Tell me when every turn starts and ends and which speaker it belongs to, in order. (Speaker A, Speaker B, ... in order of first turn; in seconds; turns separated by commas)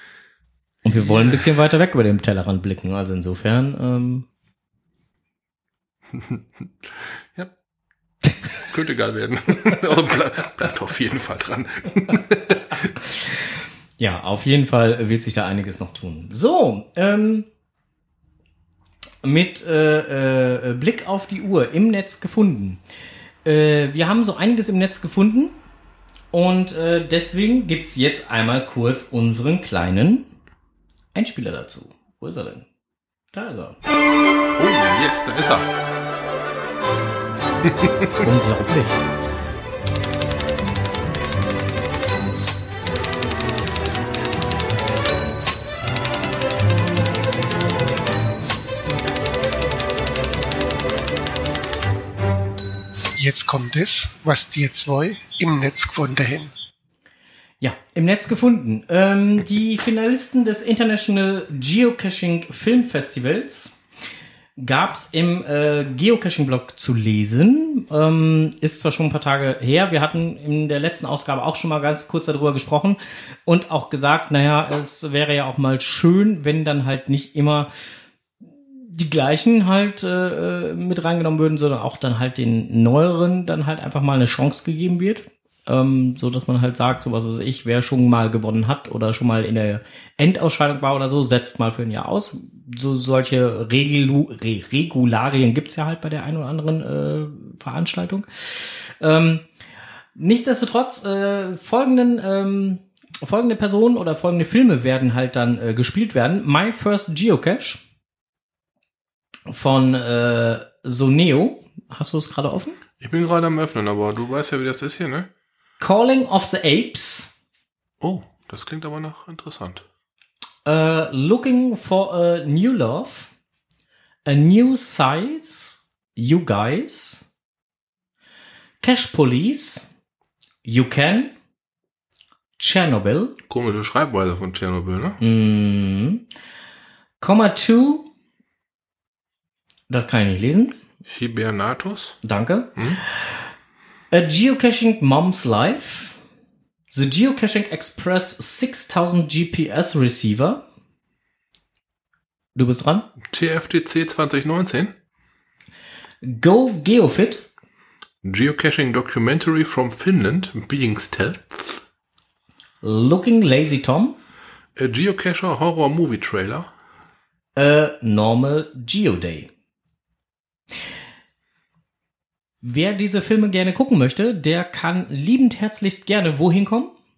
Speaker A: 0.8-4.2, Speaker B: 0.9-1.4, Speaker B: 6.1-7.5, Speaker B: 8.7-12.9, Speaker A: 14.0-17.5, Speaker A: 19.2-22.8, Speaker A: 23.4-25.6, Speaker A: 26.3-30.3, Speaker A: 31.1-32.6, Speaker A: 33.3-33.8, Speaker B: 34.6-35.7, Speaker B: 37.6-38.2, Speaker A: 38.2-39.0, Speaker C: 53.2-56.5, Speaker A: 57.6-63.8, Speaker A: 64.6-77.7, Speaker A: 78.8-99.4, Speaker A: 100.2-107.8, Speaker A: 109.5-112.8, Speaker B: 113.0-115.3, Speaker A: 115.8-117.3, Speaker B: 118.0-119.8, Speaker A: 120.7-123.3, Speaker A: 124.2-127.2, Speaker A: 128.8-129.9, Speaker A: 130.6-131.3, Speaker A: 132.6-133.3, Speaker B: 133.5-135.2, Speaker A: 135.2-136.2, Speaker A: 137.2-138.1, Speaker A: 139.9-140.8, Speaker B: 141.1-142.2, Speaker A: 142.2-142.8, Speaker B: 142.8-143.0, Speaker A: 144.1-146.2, Speaker A: 146.9-150.6, Speaker A: 152.6-153.1, Speaker B: 153.3-154.9, Speaker A: 156.2-157.5, Speaker B: 158.2-161.8, Speaker A: 162.8-164.2, Speaker B: 164.8-166.7, Speaker A: 167.6-169.5, Speaker A: 172.6-176.9